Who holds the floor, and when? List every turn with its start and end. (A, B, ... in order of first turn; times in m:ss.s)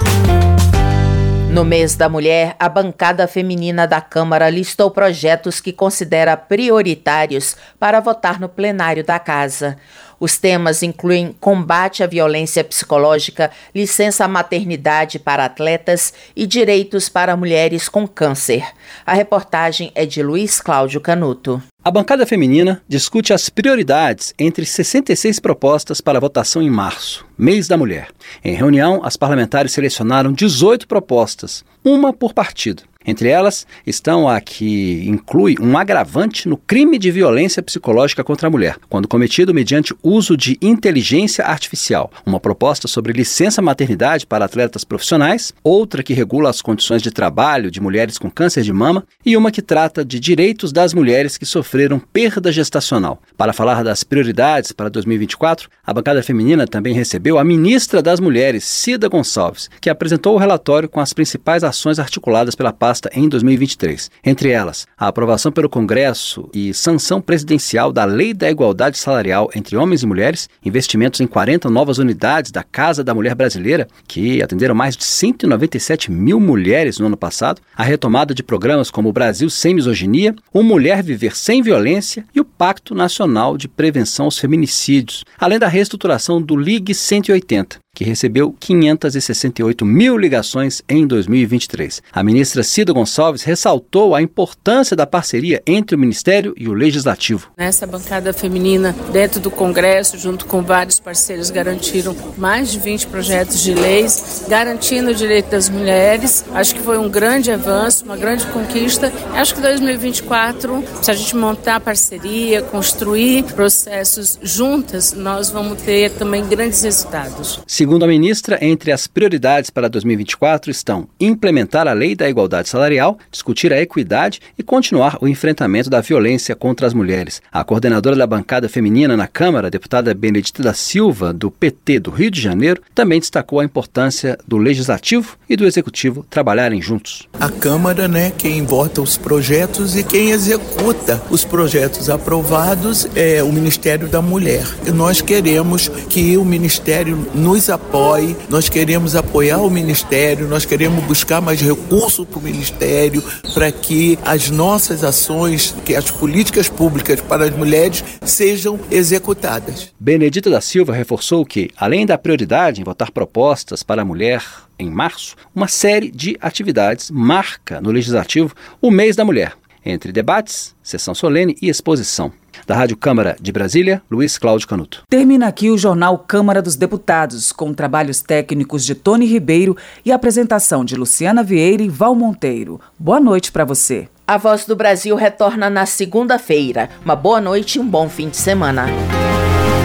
0:01.5-0:21.6 A
0:21.8-1:37.5 B
1:37.6-1:57.6 C
1:57.7-2:17.3 B
2:17.4-2:39.9 D
2:40.0-2:55.0 B
2:55.1-3:04.1 E
3:04.3-3:09.0 A